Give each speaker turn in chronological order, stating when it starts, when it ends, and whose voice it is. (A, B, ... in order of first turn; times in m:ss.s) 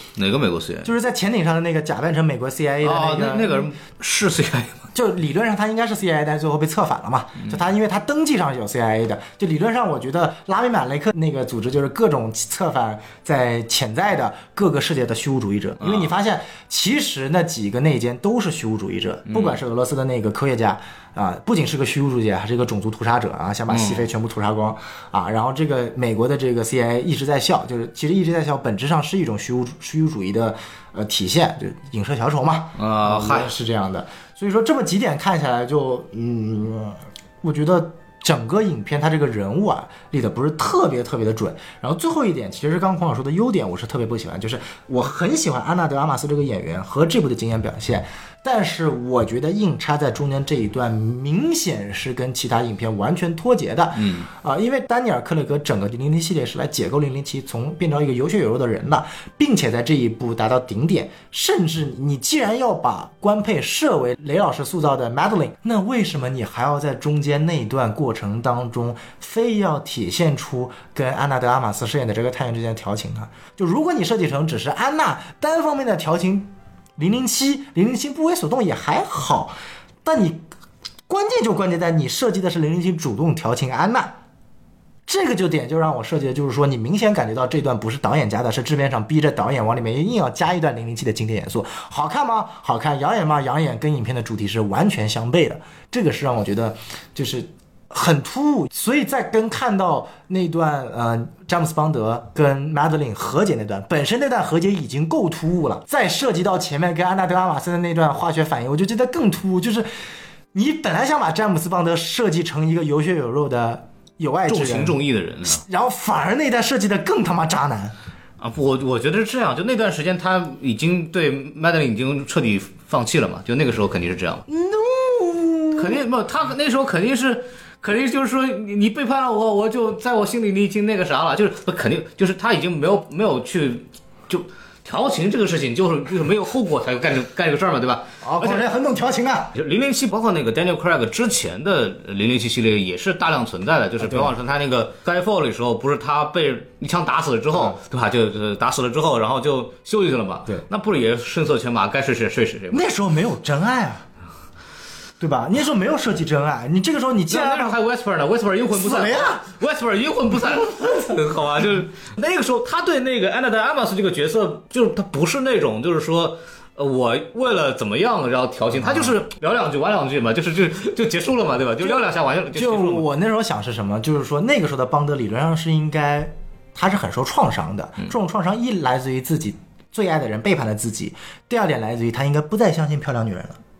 0:00.2-0:00.9 A
0:00.8-0:03.7 B
0:02.8-0:04.9 A
0:04.9-1:20.4 B
0:15.8-0:16.1 A
0:19.3-0:19.6 A
0:23.7-0:24.0 A
0:32.8-0:33.5 A
0:54.0-0:54.3 A
1:21.1-1:24.1 B
1:25.1-1:49.9 B
1:50.5-1:57.9 B
1:54.5-1:55.6 A
1:58.4-2:04.4 A
2:04.5-2:06.0 B
2:05.7-2:18.6 A
2:18.2-2:19.5 B
2:19.5-2:32.9 A
2:24.0-2:24.3 B
2:32.7-2:34.0 B
2:35.2-2:37.8 B
2:37.3-2:53.0 A
2:38.7-2:39.4 B
2:52.5-3:03.6 B